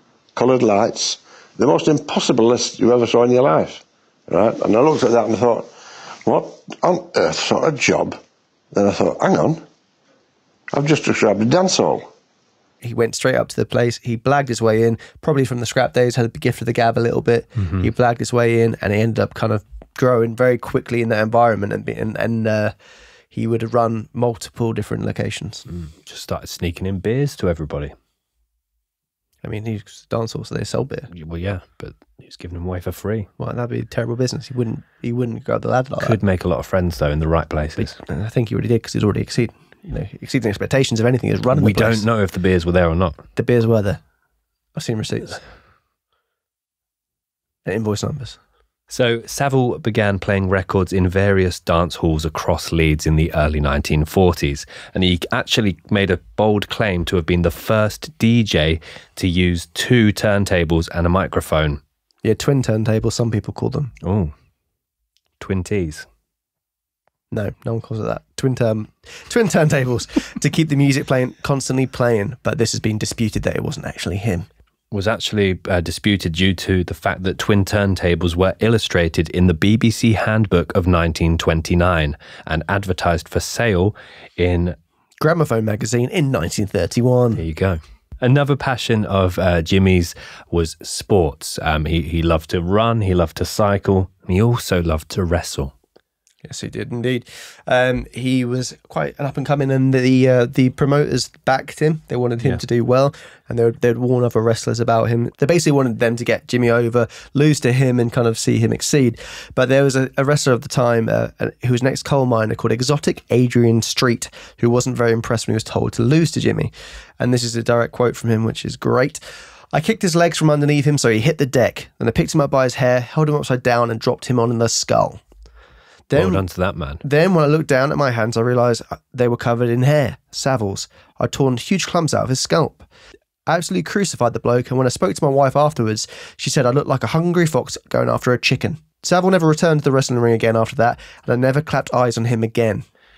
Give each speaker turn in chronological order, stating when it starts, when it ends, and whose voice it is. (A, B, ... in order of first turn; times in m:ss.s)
0:00.4-0:05.7 A
0:06.2-0:08.2 A
0:08.7-0:09.6 A
0:10.7-0:12.1 A
0:12.8-0:22.7 B
0:17.6-0:17.9 C
0:23.3-0:25.7 B
0:25.7-0:27.9 C
0:29.4-0:31.1 B
0:31.1-0:33.3 C
0:33.4-0:36.2 B
0:36.0-0:38.0 C
0:37.8-0:42.1 B
0:41.5-0:43.2 C
0:43.4-0:44.0 B
0:44.8-0:45.4 B
0:47.6-0:48.4 B
0:48.9-1:01.8 C
1:02.2-1:03.9 B
1:04.0-1:04.3 C
1:05.4-1:06.1 C
1:07.3-1:14.5 B
1:14.9-1:24.8 C
1:25.2-1:27.4 B
1:27.4-1:35.7 C
1:36.4-1:59.2 B
1:59.7-2:05.2 B
2:06.1-2:06.4 B
2:06.1-2:07.0 C
2:07.0-2:12.9 B
2:13.5-2:22.9 B